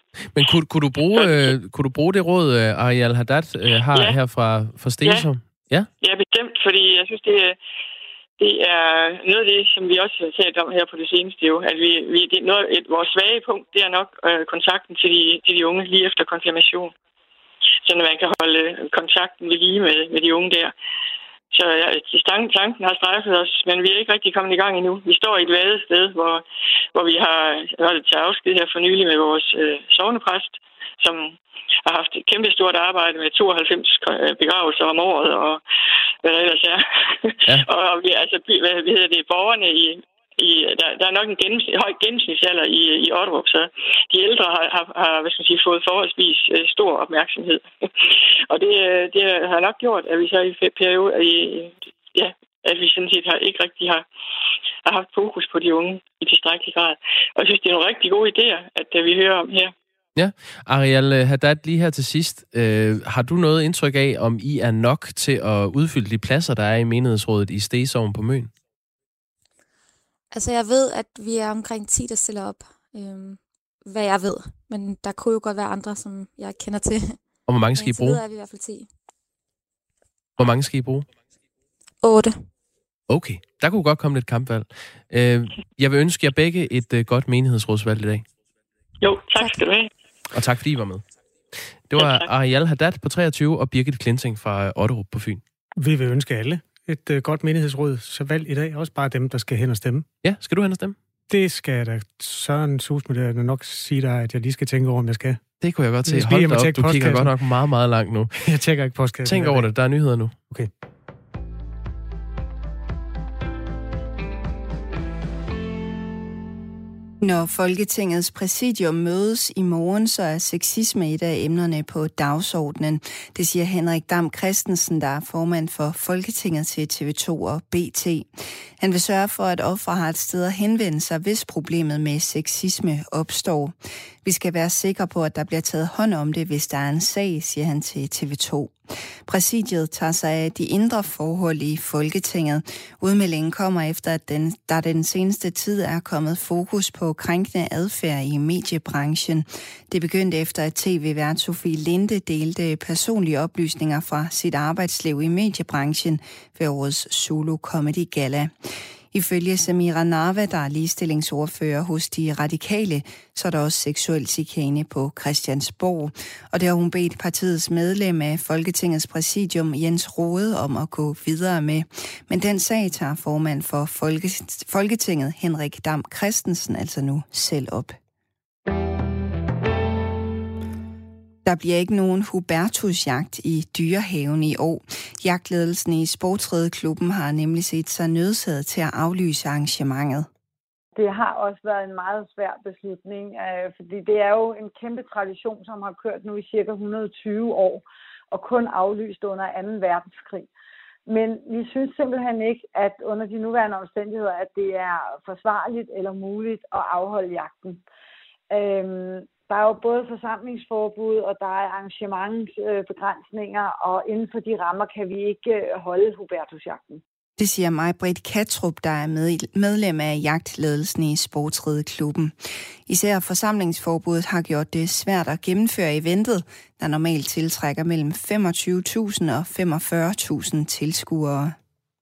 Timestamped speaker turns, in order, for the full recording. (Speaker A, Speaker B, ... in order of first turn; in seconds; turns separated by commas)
Speaker A: 0.3-5.9, Speaker B: 1.2-1.5, Speaker B: 6.0-7.6, Speaker B: 8.4-16.9, Speaker B: 17.8-20.7, Speaker B: 21.5-35.6, Speaker B: 36.2-54.0, Speaker B: 54.9-59.7, Speaker A: 60.1-68.5, Speaker C: 70.3-78.9, Speaker A: 77.5-78.2, Speaker A: 80.4-81.1, Speaker C: 82.0-82.4, Speaker A: 83.1-88.2, Speaker B: 89.0-89.9, Speaker A: 90.3-91.0, Speaker A: 91.9-95.4, Speaker B: 92.0-92.3, Speaker D: 95.8-100.0, Speaker A: 100.2-101.0, Speaker D: 101.3-105.4, Speaker A: 105.6-108.4, Speaker D: 106.0-107.3, Speaker D: 108.4-109.7, Speaker A: 109.2-110.3, Speaker E: 117.2-158.5, Speaker E: 159.1-177.9, Speaker E: 181.4-190.3, Speaker F: 190.9-200.5, Speaker F: 201.1-207.8, Speaker F: 208.5-217.0, Speaker E: 217.4-231.6